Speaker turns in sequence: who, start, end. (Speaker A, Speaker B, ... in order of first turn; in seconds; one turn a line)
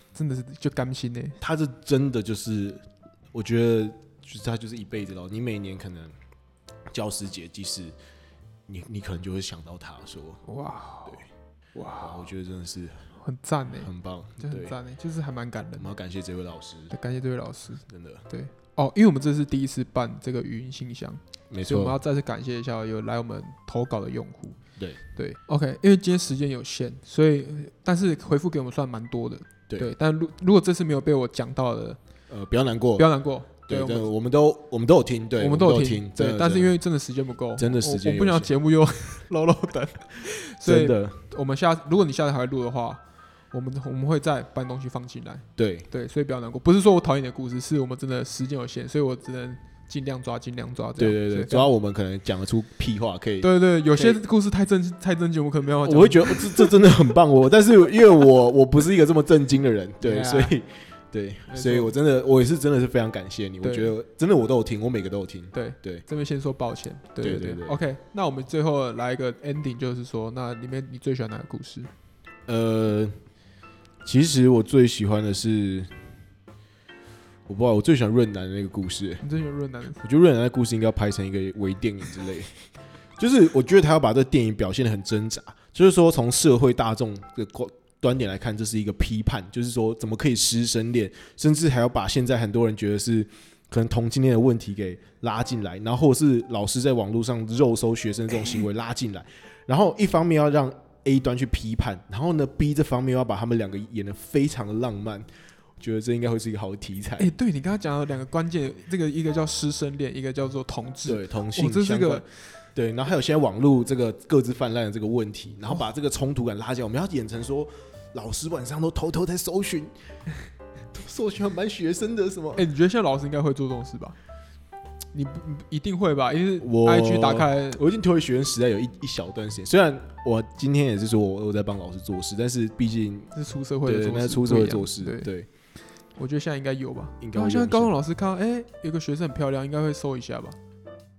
Speaker A: 0.1-1.4
Speaker B: 1.4-6.2
Speaker B: 6.9-8.0
Speaker B: 8.7-11.3
Speaker A: 10.4-12.3
Speaker B: 12.0-14.8
Speaker A: 13.2-16.0
Speaker B: 15.8-17.0
Speaker A: 16.9-32.3
Speaker B: 17.9-18.2
Speaker B: 21.5-22.0
Speaker B: 24.8-25.0
Speaker B: 32.3-37.0
Speaker A: 33.0-34.1
Speaker A: 35.4-51.7
Speaker B: 37.6-38.5
Speaker B: 40.6-41.3
Speaker B: 45.6-45.9
Speaker B: 51.0-54.2
Speaker A: 53.4-56.8
Speaker B: 55.8-66.1
Speaker A: 60.0-60.6
Speaker A: 61.5-62.0
Speaker A: 63.6-63.9
Speaker A: 65.5-71.9
Speaker B: 67.2-67.8
Speaker B: 72.5-73.2
Speaker B: 74.0-76.3
Speaker B: 77.5-79.3
Speaker A: 79.2-80.0
Speaker B: 80.0-107.3
Speaker A: 107.2-112.6
Speaker B: 111.1-120.4
Speaker B: 120.9-122.7
Speaker A: 122.6-124.2
Speaker A: 125.1-127.8
Speaker B: 126.6-135.5
Speaker A: 133.3-140.6
Speaker B: 137.2-137.9